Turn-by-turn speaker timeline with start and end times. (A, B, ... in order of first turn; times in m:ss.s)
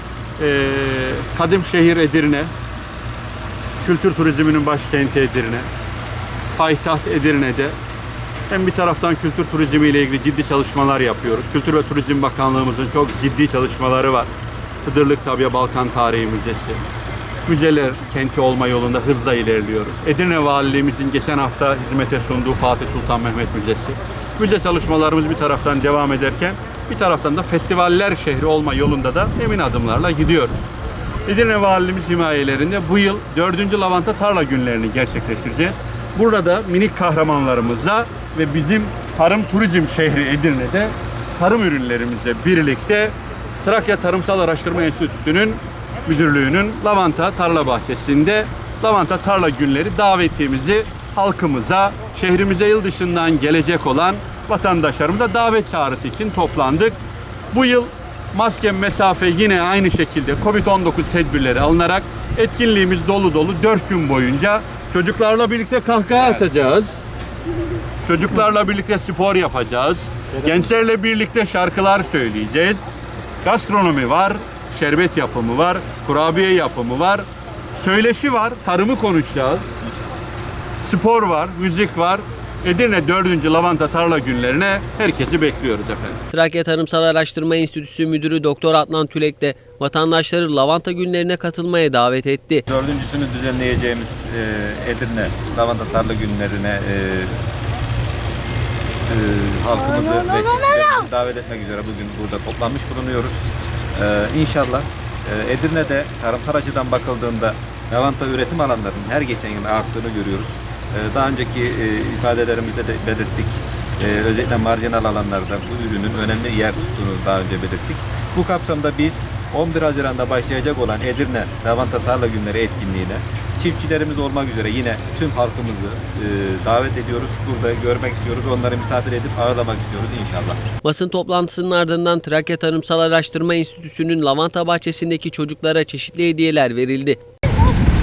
0:00.4-0:02.5 A
0:03.8-0:05.7 A
0:06.6-0:07.8 A
0:08.5-0:14.3 A
0:14.8-0:16.8 A
0:17.4-0:30.6 A
0:31.2-0:57.0 A
0:57.5-1:07.0 A
1:08.0-1:12.8 A
1:10.3-1:10.7 B
1:13.4-1:19.7 A
1:20.8-1:26.2 A
1:26.3-1:32.6 C
1:32.7-1:37.4 B
1:39.0-1:43.4 B
1:43.9-2:10.6 B
2:10.8-2:17.2 C